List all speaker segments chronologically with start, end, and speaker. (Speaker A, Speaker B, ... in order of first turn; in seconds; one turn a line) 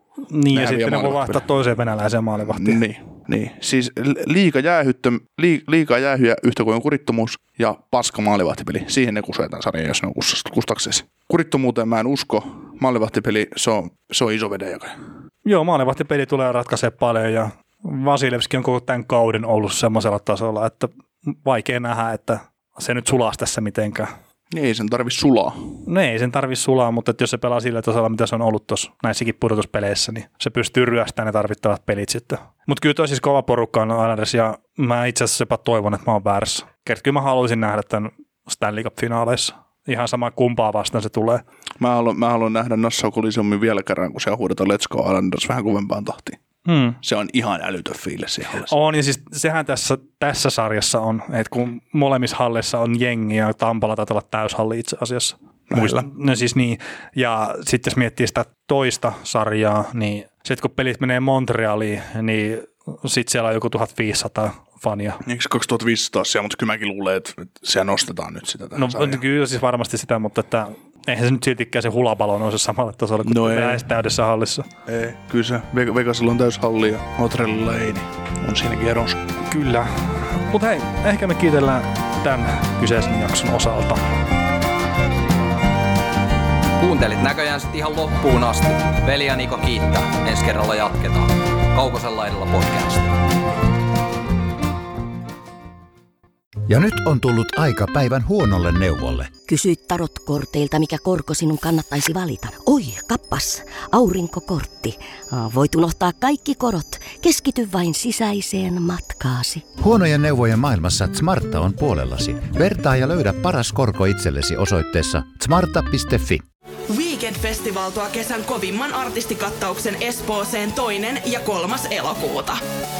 Speaker A: 0.3-2.8
Speaker B: 0.5-1.4
Speaker B: 2.4-14.9
Speaker A: 15.4-24.1
Speaker B: 24.5-25.7
Speaker A: 25.9-41.4
Speaker B: 41.8-46.4
Speaker A: 46.6-47.0
Speaker B: 47.0-48.7
Speaker A: 48.7-65.2
Speaker B: 55.7-56.1
Speaker B: 65.2-69.2
Speaker A: 68.7-74.7
Speaker B: 73.2-73.8
Speaker B: 74.8-79.2
Speaker A: 79.5-84.2
Speaker C: 86.8-93.1
Speaker D: 96.7-99.3
Speaker E: 99.5-109.7
Speaker D: 109.8-116.4
Speaker F: 116.9-122.6